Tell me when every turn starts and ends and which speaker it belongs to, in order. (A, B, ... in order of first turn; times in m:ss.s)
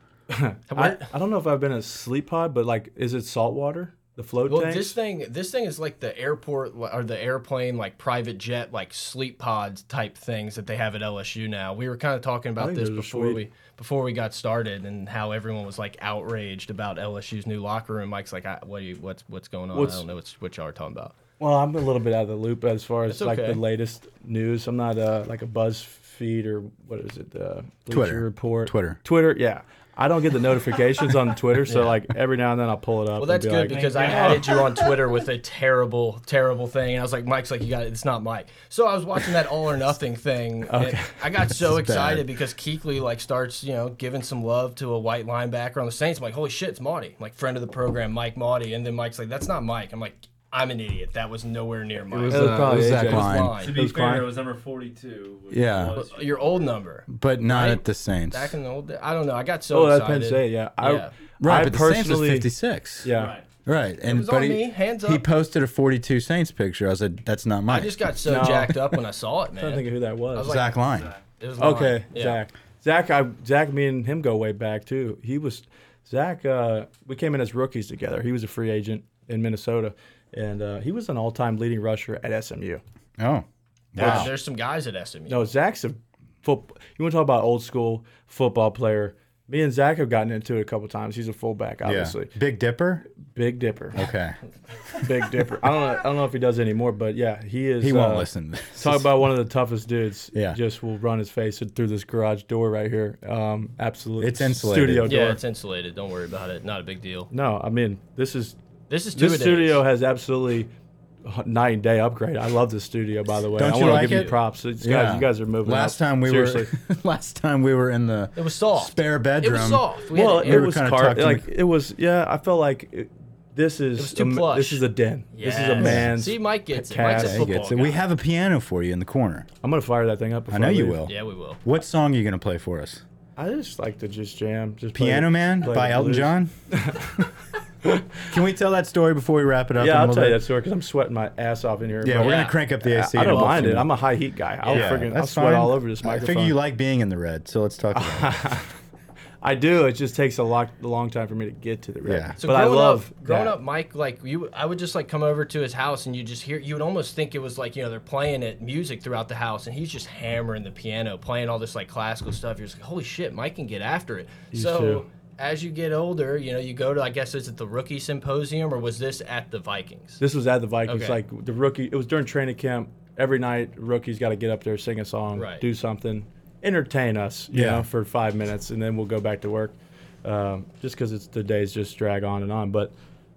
0:00.3-0:05.0 A
0:00.7-0:01.1 B
0:04.5-0:21.1 B
0:12.6-0:13.4 A
0:19.7-0:20.0 A
0:21.4-0:34.6 A
0:23.1-0:23.6 B
0:27.9-0:29.0 C
0:31.7-0:32.0 B
0:33.2-0:53.8 B
0:33.7-0:34.9 D
0:40.7-0:41.2 A
0:41.5-0:42.3 C
0:52.1-0:54.3 A
0:52.3-0:53.6 C
0:53.5-0:56.6 D
0:55.5-0:56.0 C
0:56.0-1:01.1 B
0:57.1-0:58.5 C
0:59.7-1:02.5 A
1:01.4-1:03.1 C
1:03.0-1:03.4 A
1:03.1-1:03.5 D
1:03.6-1:07.9 C
1:04.0-1:05.2 B
1:07.7-1:10.8 B
1:08.2-1:08.8 A
1:09.6-1:10.6 A
1:10.4-1:11.1 C
1:10.9-1:11.2 D
1:11.4-1:12.4 B
1:11.6-1:22.8 A
1:23.2-1:24.3 C
1:24.0-1:24.3 A
1:24.0-1:25.4 B
1:25.3-1:32.3 A
1:31.8-1:33.0 C
1:33.1-1:34.1 A
1:33.9-1:35.2 C
1:35.0-1:45.4 A
1:37.8-1:39.2 C
1:44.2-1:45.1 C
1:45.0-1:47.3 B
1:47.3-1:48.6 A
1:48.9-1:49.8 B
1:49.1-1:50.7 A
1:51.2-1:56.7 A
1:53.5-2:01.4 C
1:53.6-1:54.3 B
1:58.4-2:00.7 B
2:00.1-2:07.5 A
2:04.0-2:08.0 B
2:05.8-2:06.1 C
2:07.2-2:09.5 C
2:09.6-2:11.0 A
2:10.5-2:13.0 C
2:11.1-2:11.6 B
2:13.4-2:17.3 A
2:14.9-2:16.5 C
2:17.8-2:18.2 A
2:18.3-2:20.4 C
2:19.8-2:26.6 A
2:22.0-2:23.9 C
2:22.2-2:22.6 B
2:23.1-2:23.8 B
2:24.6-2:25.0 B
2:24.6-2:28.4 C
2:27.9-2:28.7 A
2:29.4-2:33.6 A
2:32.0-2:32.4 C
2:32.4-2:50.2 B
2:44.5-2:45.0 A
2:50.2-3:02.9 A
2:50.9-2:51.2 B
2:55.3-2:55.6 B
2:57.5-2:57.8 C